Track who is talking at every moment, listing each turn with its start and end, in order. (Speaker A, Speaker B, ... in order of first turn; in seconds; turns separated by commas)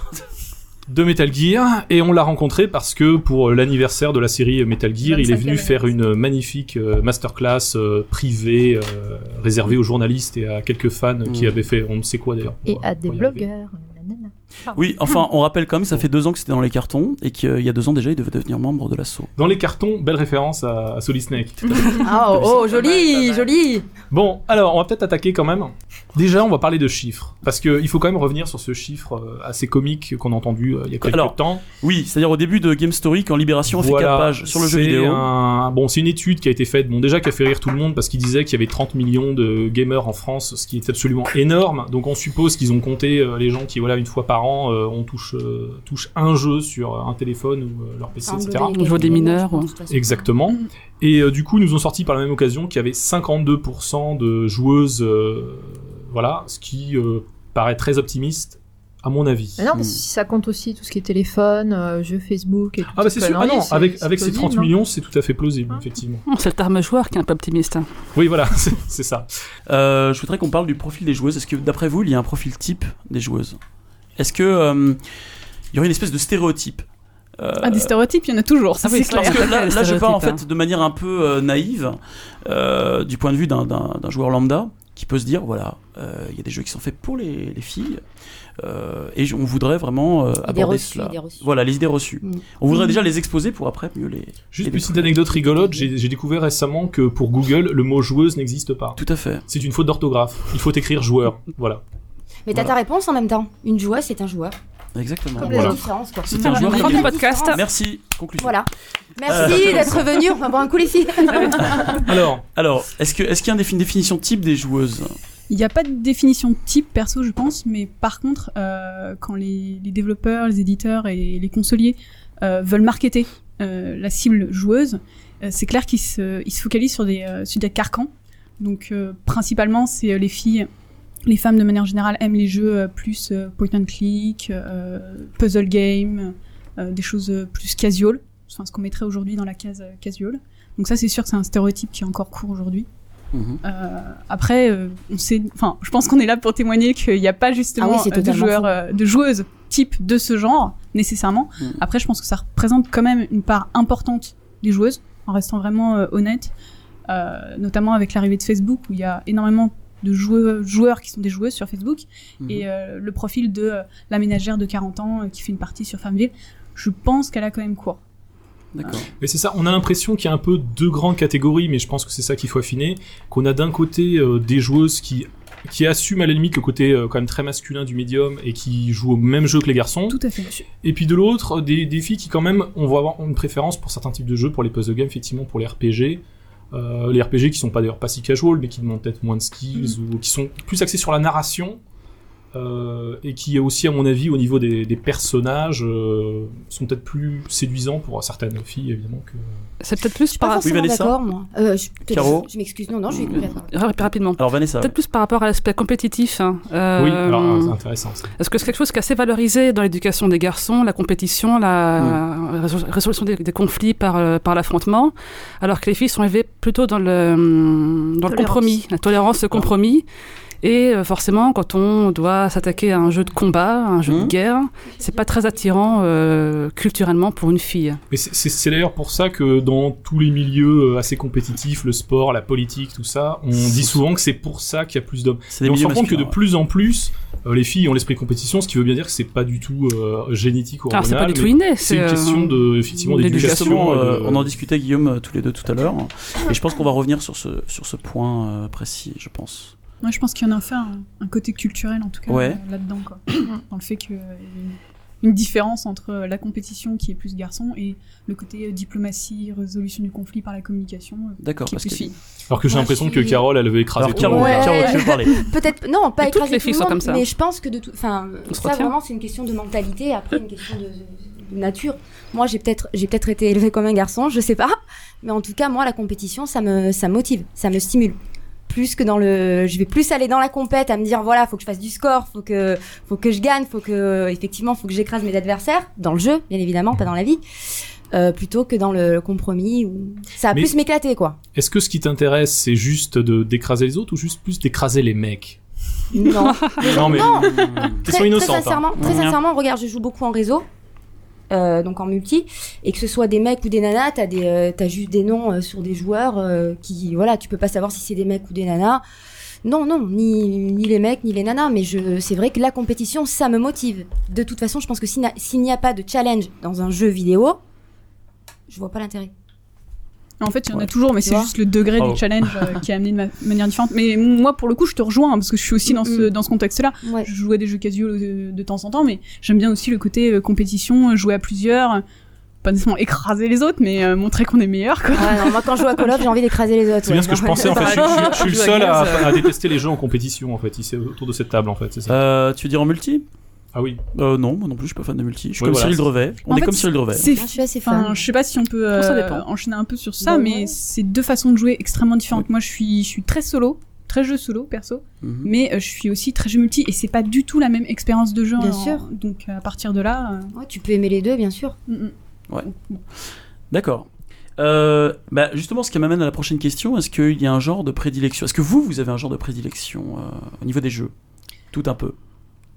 Speaker A: 0.9-13.5, Speaker B: 5.1-5.9, Speaker C: 11.3-11.5, Speaker B: 12.7-14.9, Speaker C: 14.7-19.3, Speaker A: 19.4-22.0, Speaker C: 21.7-22.7, Speaker D: 21.8-23.9, Speaker B: 22.1-23.5, Speaker A: 24.1-31.6, Speaker C: 31.0-35.3, Speaker A: 33.7-49.2, Speaker D: 48.3-50.3, Speaker E: 48.7-49.7, Speaker A: 49.9-59.7, Speaker B: 59.6-64.7, Speaker C: 59.7-60.0, Speaker A: 62.9-66.2, Speaker E: 66.3-67.9, Speaker A: 68.2-69.3, Speaker C: 69.7-73.6, Speaker C: 74.2-75.0, Speaker C: 75.7-76.9, Speaker C: 77.4-77.9, Speaker F: 77.6-79.6, Speaker E: 78.8-80.4, Speaker C: 79.1-88.0, Speaker C: 88.6-95.8, Speaker D: 90.4-91.5, Speaker D: 92.2-92.8, Speaker A: 94.5-101.8, Speaker C: 99.0-99.4, Speaker D: 102.5-104.6, Speaker C: 105.0-105.8, Speaker D: 105.4-107.6, Speaker A: 105.4-105.8, Speaker B: 105.4-105.8, Speaker C: 106.3-108.6, Speaker E: 106.3-107.6, Speaker D: 108.4-112.0, Speaker C: 109.2-110.2, Speaker C: 111.6-115.2, Speaker A: 111.9-112.5, Speaker F: 115.5-130.7, Speaker F: 131.3-142.9, Speaker C: 143.3-143.6, Speaker F: 143.6-156.5, Speaker D: 147.8-148.8, Speaker F: 157.1-168.0, Speaker C: 162.4-162.7, Speaker C: 168.7-169.1, Speaker A: 168.9-180.2, Speaker F: 180.1-180.5, Speaker A: 180.8-191.8, Speaker A: 192.5-199.5, Speaker E: 199.8-200.7, Speaker D: 200.3-203.8, Speaker C: 200.6-201.2, Speaker C: 202.1-202.5, Speaker C: 203.1-203.5, Speaker E: 203.7-207.8, Speaker C: 204.4-204.9, Speaker A: 207.0-208.3, Speaker E: 208.4-220.1, Speaker B: 218.3-218.8, Speaker E: 220.6-228.0, Speaker C: 224.1-224.4, Speaker D: 225.0-225.7, Speaker A: 228.1-244.6, Speaker C: 235.5-236.4, Speaker E: 240.9-243.8, Speaker C: 243.2-249.8, Speaker F: 250.0-262.2, Speaker C: 252.3-252.6, Speaker C: 261.4-262.1, Speaker A: 262.5-264.8, Speaker D: 262.7-263.5, Speaker C: 263.9-265.4, Speaker D: 264.1-287.4, Speaker F: 264.3-265.1, Speaker E: 266.2-267.2, Speaker E: 268.5-268.9, Speaker D: 288.1-291.4, Speaker A: 291.5-295.6, Speaker D: 296.1-300.7, Speaker E: 296.6-296.9, Speaker A: 296.8-299.1, Speaker C: 297.4-298.0, Speaker C: 299.0-299.4, Speaker D: 301.5-309.0, Speaker D: 309.6-317.6, Speaker D: 318.7-319.3, Speaker F: 320.4-332.0, Speaker D: 321.2-321.5, Speaker C: 322.0-322.8, Speaker D: 325.9-326.3, Speaker D: 327.0-327.3, Speaker F: 332.6-336.2, Speaker D: 335.1-338.1, Speaker A: 337.1-342.2, Speaker E: 337.6-339.5, Speaker C: 342.1-343.2, Speaker A: 343.8-344.0, Speaker C: 344.1-347.3, Speaker A: 345.6-346.0, Speaker F: 346.5-360.5, Speaker D: 347.2-348.1, Speaker E: 348.9-349.4, Speaker D: 350.2-350.8, Speaker C: 355.2-355.5, Speaker D: 358.6-359.0, Speaker D: 360.5-361.8, Speaker F: 361.9-363.0, Speaker C: 363.7-371.1, Speaker C: 371.7-372.2